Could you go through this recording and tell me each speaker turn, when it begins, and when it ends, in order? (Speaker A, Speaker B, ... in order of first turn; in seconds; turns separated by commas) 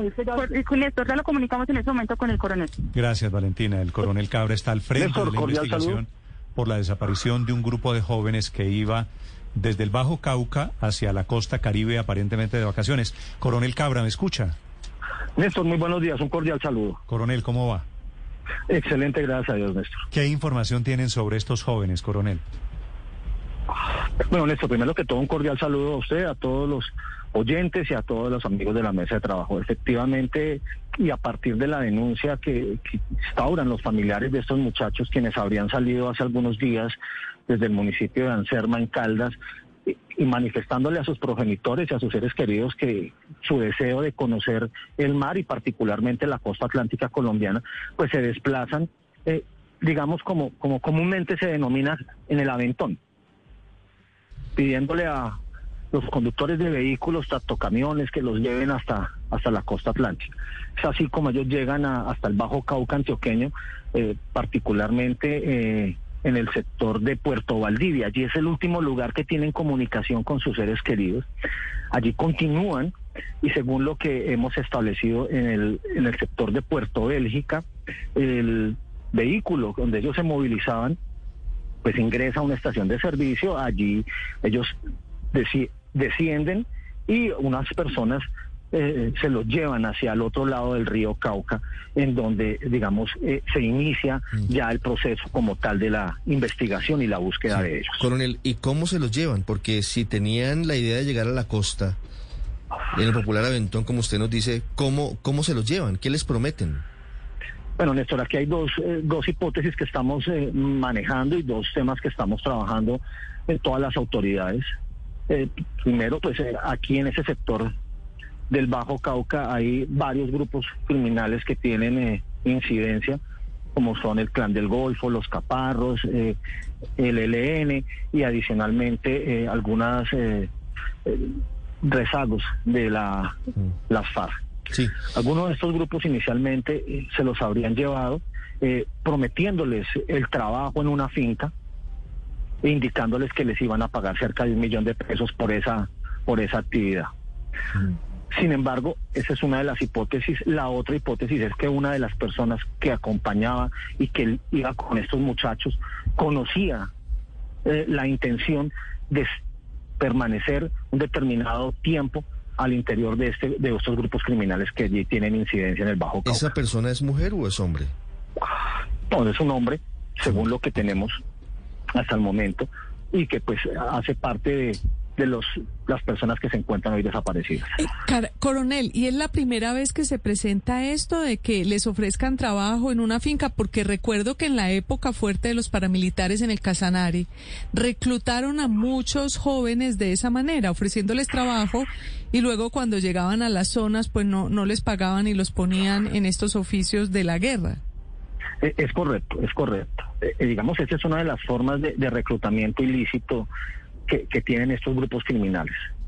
Speaker A: 0.3-2.8, Speaker B: 2.9-14.6, Speaker C: 5.0-6.0, Speaker C: 15.4-17.0, Speaker B: 17.1-17.9, Speaker C: 18.7-20.0, Speaker B: 20.1-22.4, Speaker C: 24.3-37.0, Speaker C: 37.5-39.4, Speaker C: 39.9-53.0, Speaker C: 54.6-55.4, Speaker C: 55.9-71.3, Speaker C: 71.9-81.0, Speaker C: 81.8-84.7, Speaker C: 85.3-98.1, Speaker D: 98.0-102.0, Speaker D: 102.9-106.8, Speaker C: 107.8-114.7, Speaker C: 115.3-117.7, Speaker C: 118.5-123.2, Speaker C: 123.8-126.4, Speaker C: 127.0-130.5, Speaker C: 131.1-134.3, Speaker C: 135.1-141.5, Speaker C: 142.6-147.1, Speaker C: 148.3-156.9, Speaker C: 157.7-159.3, Speaker C: 160.0-166.5, Speaker D: 166.2-167.9, Speaker C: 169.1-171.2, Speaker C: 171.9-177.8, Speaker E: 177.8-197.8, Speaker C: 198.6-203.5, Speaker C: 204.1-205.7